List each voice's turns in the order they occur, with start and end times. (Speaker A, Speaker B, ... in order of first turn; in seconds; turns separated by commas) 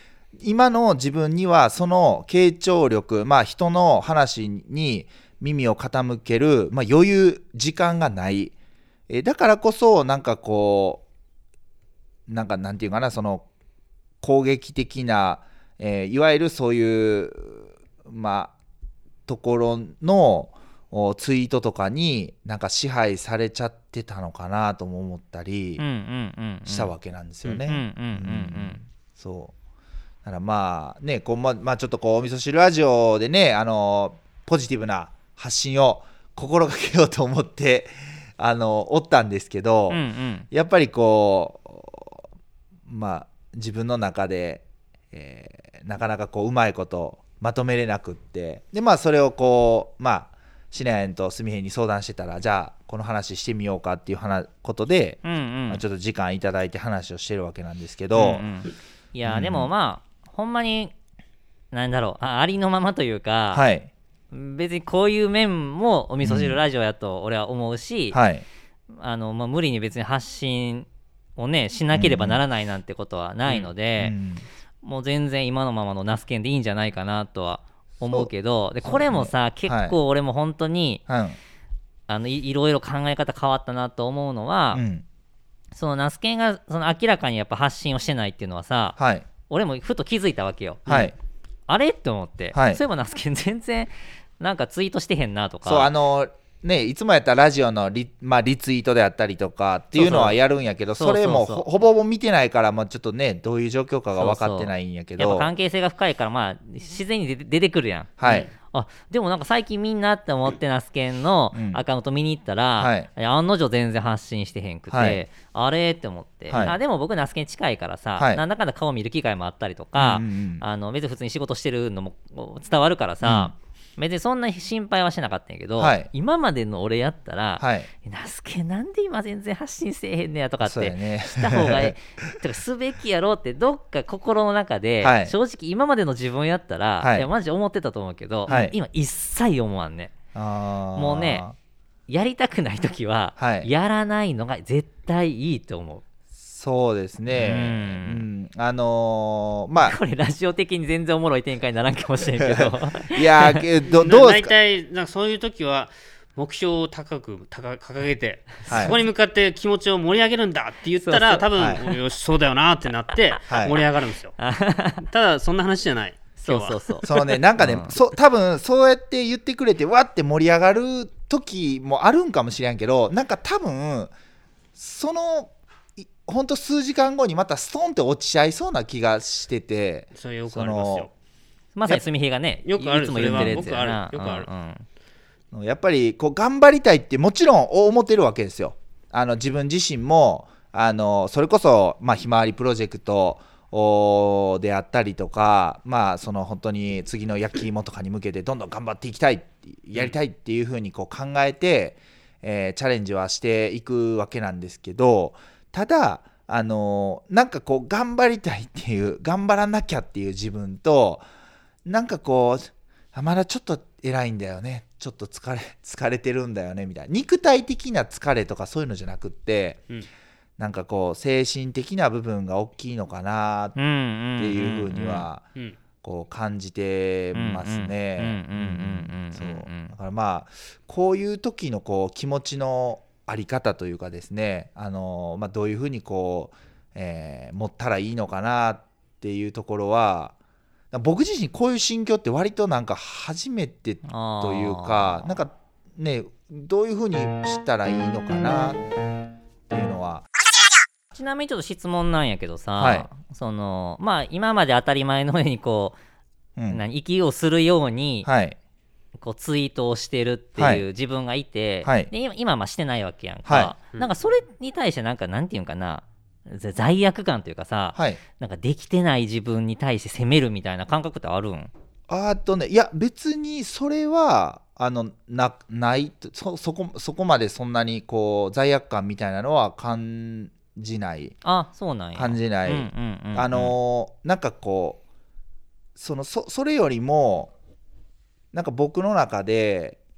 Speaker A: 0.4-8.5, Speaker A: 9.1-11.0, Speaker A: 12.3-13.4, Speaker A: 14.2-18.5, Speaker A: 19.3-25.8, Speaker B: 25.8-26.9, Speaker A: 26.6-29.5, Speaker B: 27.7-28.8, Speaker A: 30.2-42.2, Speaker B: 39.9-40.5, Speaker A: 42.9-58.4, Speaker B: 55.2-55.8, Speaker B: 58.1-60.9, Speaker A: 59.2-59.7, Speaker B: 61.7-63.6, Speaker A: 63.5-63.9, Speaker B: 64.3-68.2, Speaker A: 66.2-66.6, Speaker A: 68.1-68.4, Speaker B: 68.9-74.1, Speaker A: 71.9-72.4, Speaker A: 73.5-74.4, Speaker B: 74.8-81.0, Speaker A: 78.8-80.0, Speaker A: 81.1-81.4, Speaker B: 82.1-84.8, Speaker A: 84.7-85.0, Speaker B: 85.7-91.1, Speaker A: 89.0-89.3, Speaker A: 90.9-91.1, Speaker B: 91.7-95.9, Speaker A: 92.5-92.8, Speaker A: 95.6-105.5, Speaker C: 100.0-100.3, Speaker B: 100.0-100.3, Speaker B: 101.0-101.7, Speaker B: 104.2-140.2, Speaker A: 108.2-108.5, Speaker A: 111.5-111.8, Speaker A: 112.8-113.1, Speaker A: 114.9-115.2, Speaker A: 116.5-116.8, Speaker A: 120.0-120.6, Speaker A: 123.2-123.5, Speaker A: 125.8-126.1, Speaker A: 127.6-127.9, Speaker A: 130.7-132.3, Speaker A: 135.0-135.3, Speaker A: 137.0-137.3, Speaker A: 138.5-138.7, Speaker A: 140.3-141.6, Speaker B: 140.9-141.4, Speaker B: 142.1-146.0, Speaker A: 143.4-143.7, Speaker A: 146.4-150.0, Speaker B: 147.3-148.2, Speaker B: 149.8-153.7, Speaker A: 152.2-154.5, Speaker C: 153.8-164.4, Speaker B: 158.7-159.0, Speaker A: 158.7-159.0, Speaker B: 161.0-161.4, Speaker A: 161.5-161.8, Speaker A: 163.5-163.8, Speaker B: 164.4-165.1, Speaker C: 165.1-167.2, Speaker B: 166.4-167.9, Speaker A: 167.0-174.1, Speaker A: 174.8-181.1, Speaker C: 180.1-181.1, Speaker B: 181.7-184.8, Speaker C: 182.6-184.5, Speaker A: 183.3-183.7, Speaker A: 185.5-211.2, Speaker A: 211.8-219.8, Speaker A: 220.6-223.8, Speaker B: 223.8-225.3, Speaker A: 224.4-225.5, Speaker A: 226.0-240.3, Speaker B: 227.3-229.9, Speaker A: 240.9-248.8, Speaker B: 244.0-245.4, Speaker A: 249.7-250.2, Speaker B: 251.1-256.0, Speaker A: 252.8-253.1, Speaker A: 256.6-256.8, Speaker B: 256.7-258.3, Speaker A: 258.2-258.6, Speaker B: 259.2-271.7, Speaker A: 260.6-260.8, Speaker A: 261.8-262.1, Speaker A: 263.4-263.7, Speaker A: 267.9-268.2, Speaker A: 272.1-281.4, Speaker B: 281.4-283.7, Speaker A: 282.1-285.0, Speaker A: 285.9-287.5, Speaker A: 288.5-290.0